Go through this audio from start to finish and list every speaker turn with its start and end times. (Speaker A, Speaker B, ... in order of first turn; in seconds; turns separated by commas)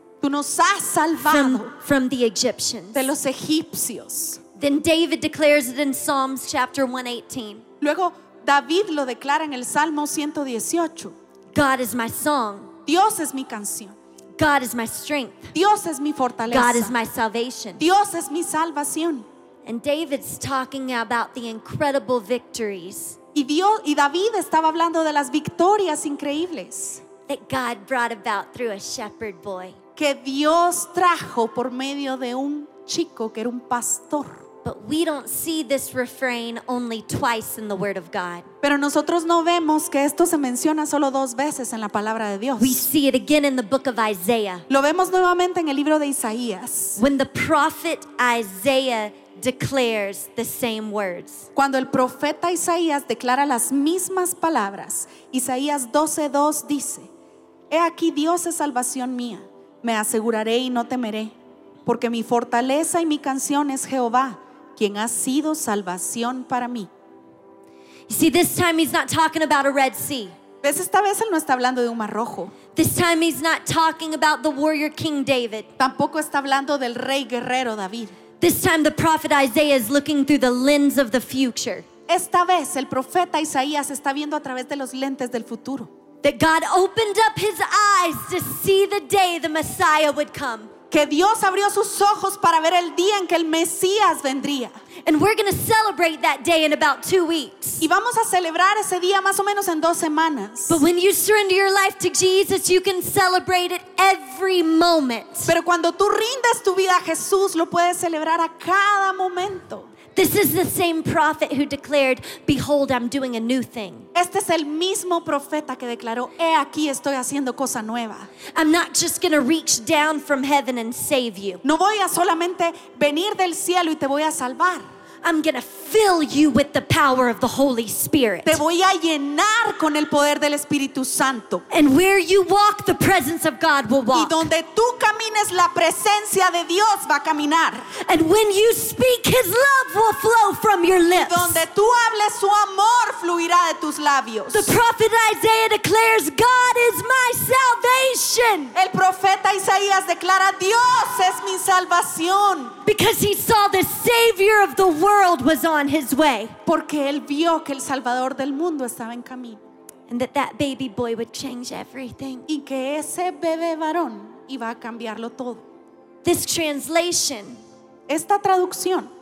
Speaker A: 0.2-1.8, Speaker B: 1.2-3.1, Speaker A: 2.9-4.4, Speaker B: 4.6-7.7, Speaker A: 7.8-11.2, Speaker B: 11.5-12.7, Speaker A: 12.9-14.0, Speaker B: 14.4-15.5, Speaker A: 15.5-17.0, Speaker B: 16.5-17.9, Speaker A: 17.8-19.3, Speaker B: 19.6-23.2, Speaker A: 23.4-27.0, Speaker B: 27.3-29.8, Speaker A: 30.0-34.4, Speaker B: 34.6-38.5, Speaker A: 38.6-42.9, Speaker B: 42.6-44.7, Speaker A: 44.7-47.0, Speaker B: 47.0-51.5, Speaker A: 51.5-57.1, Speaker A: 57.7-61.4, Speaker A: 61.9-66.9, Speaker B: 68.1-70.3, Speaker A: 70.6-72.5, Speaker B: 72.8-75.7, Speaker A: 75.8-78.2, Speaker B: 78.4-81.9, Speaker A: 82.1-85.9, Speaker B: 86.2-90.7, Speaker A: 90.9-94.7, Speaker B: 95.0-97.8, Speaker A: 97.8-100.8, Speaker B: 100.7-105.5, Speaker A: 105.5-109.9, Speaker B: 110.2-114.1, Speaker A: 114.1-118.3, Speaker B: 118.5-121.6, Speaker A: 121.6-124.8, Speaker B: 125.2-128.6, Speaker A: 128.4-131.7, Speaker B: 131.7-134.5, Speaker A: 134.1-137.9, Speaker B: 138.0-141.6, Speaker A: 141.2-144.8, Speaker B: 144.5-148.8, Speaker A: 148.7-152.8, Speaker B: 152.8-156.6, Speaker A: 156.7-159.6, Speaker B: 160.1-162.5, Speaker A: 162.5-165.7, Speaker B: 166.2-167.6, Speaker A: 168.1-169.1